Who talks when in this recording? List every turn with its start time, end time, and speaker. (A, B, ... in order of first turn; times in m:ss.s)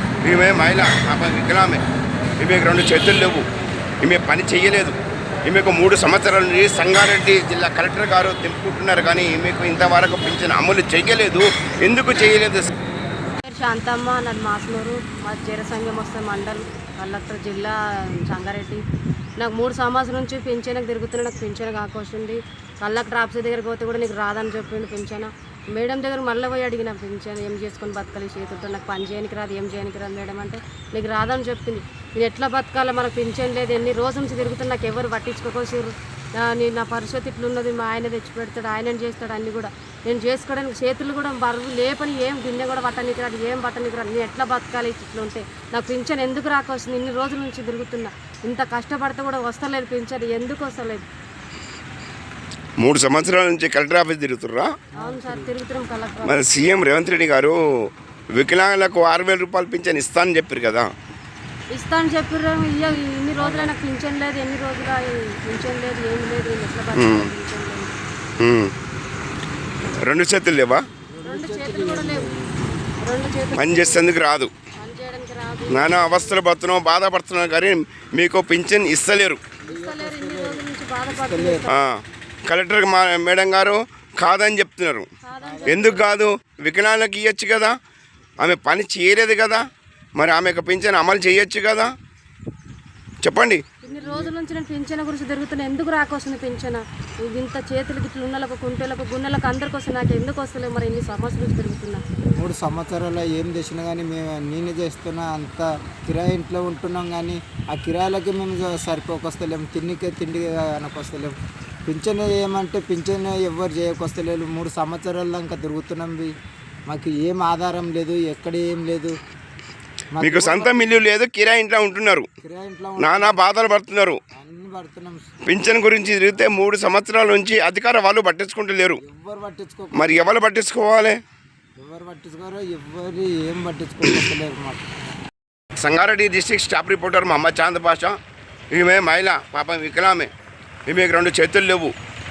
0:00.2-0:01.8 A
0:02.4-0:03.4 A
0:04.0-0:12.7 A
0:13.4-0:18.8 B
0:19.4-0:51.0 B
0:52.8-0:54.7 A
0:54.9-0:56.4 B
0:55.0-0:55.5 C
0:56.2-1:00.9 A
1:01.7-1:07.9 B
1:02.8-1:03.7 C
1:06.9-1:07.3 A
1:08.4-1:08.7 A
1:10.0-1:10.8 A
1:11.1-1:12.5 C
1:11.2-1:12.3 B
1:13.0-1:14.1 B
1:13.6-1:14.5 A
1:14.8-1:16.4 B
1:15.7-1:19.5 A
1:19.7-1:21.7 C
1:19.7-1:21.7 B
1:21.7-1:25.1 A
1:25.2-1:26.0 B
1:25.4-1:26.0 C
1:25.7-1:27.8 A
1:28.4-1:31.9 A
1:33.2-1:33.6 A
1:33.8-1:42.0 B
1:33.9-1:34.3 C
1:42.4-1:56.4 C
1:56.9-1:59.2 C
2:00.1-2:00.9 C
2:00.2-2:02.3 A
2:02.4-2:03.4 C
2:03.0-2:04.2 A
2:04.3-2:05.2 C
2:05.4-2:09.0 A
2:09.0-2:10.3 C
2:09.9-2:11.2 A
2:11.8-2:14.8 C
2:15.8-2:18.2 A
2:18.7-2:20.3 A
2:20.9-2:21.9 A